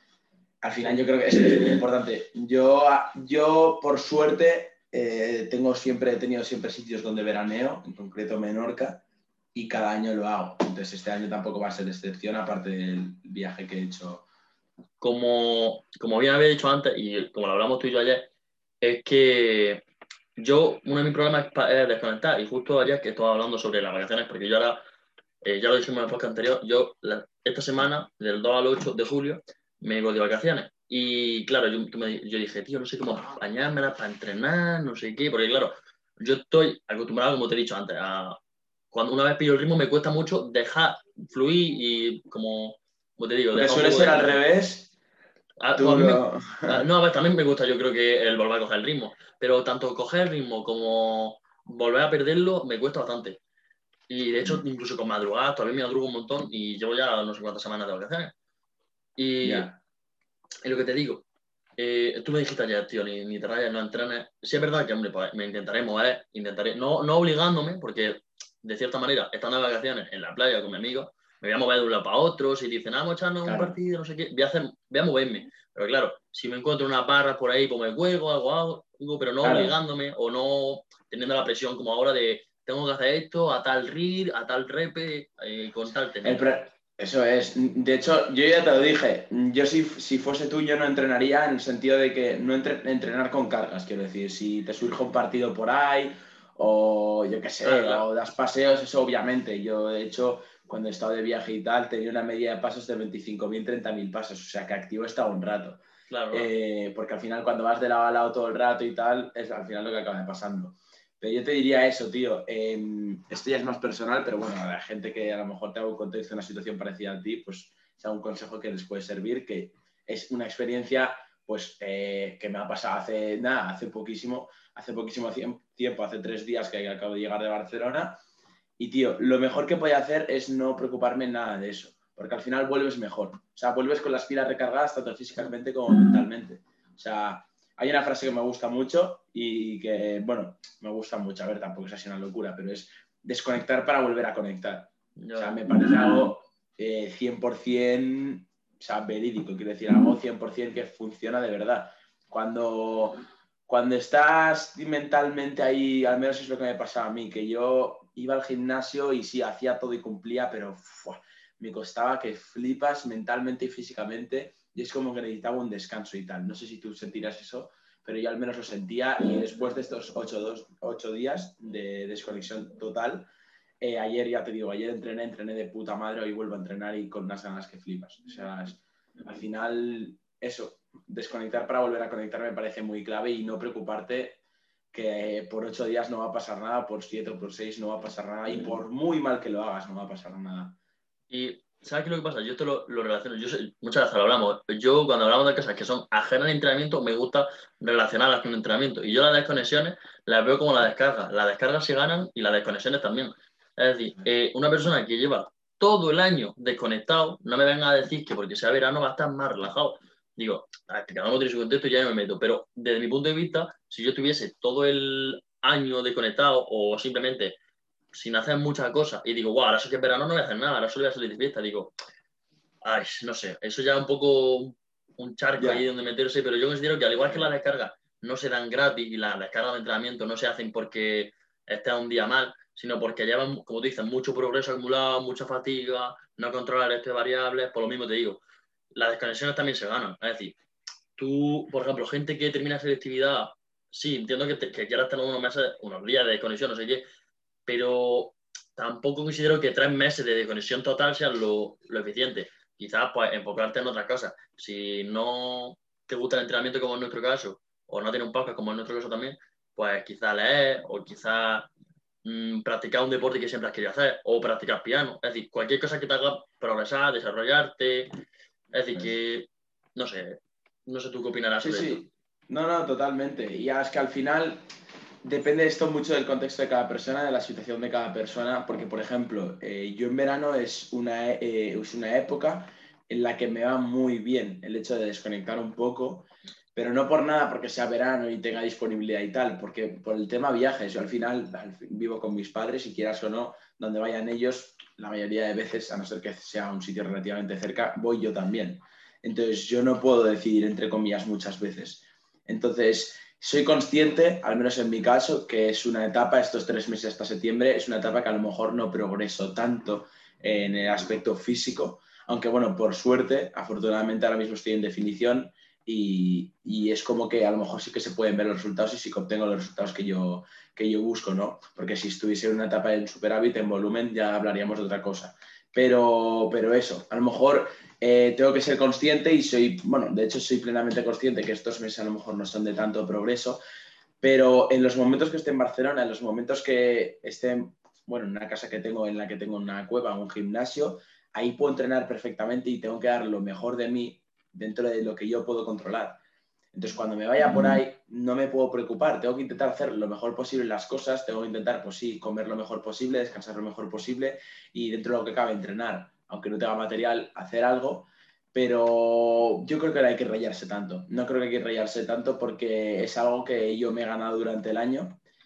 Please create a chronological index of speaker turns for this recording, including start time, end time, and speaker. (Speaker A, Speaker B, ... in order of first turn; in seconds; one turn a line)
Speaker A: 0.6-14.2
Speaker B: 15.0-18.3
Speaker B: 18.8-19.8
Speaker B: 20.4-24.8
Speaker B: 25.4-38.4
Speaker B: 38.9-44.4
Speaker A: 43.5-44.9
Speaker B: 45.6-53.4
Speaker A: 45.8-46.9
Speaker B: 54.1-58.3
Speaker B: 59.2-59.7
Speaker A: 59.4-59.8
Speaker B: 60.6-61.2
Speaker B: 61.8-86.4
Speaker A: 73.4-73.8
Speaker A: 79.4-79.7
Speaker A: 86.2-105.8
Speaker B: 97.6-98.0
Speaker B: 106.1-106.5
Speaker A: 106.3-128.2
Speaker A: 128.8-173.3
Speaker B: 145.2-145.6
Speaker A: 173.8-184.4
Speaker A: 184.9-190.8
Speaker B: 191.3-217.6
Speaker B: 218.1-221.9
Speaker B: 222.8-238.4
Speaker A: 225.6-225.8
Speaker B: 238.9-240.6
Speaker B: 241.2-247.0
Speaker B: 247.7-261.7
Speaker B: 262.2-268.1
Speaker B: 268.7-272.0
Speaker A: 268.9-269.1
Speaker A: 271.6-274.6
Speaker A: 275.2-333.6
Speaker A: 334.2-346.2
Speaker A: 346.7-365.2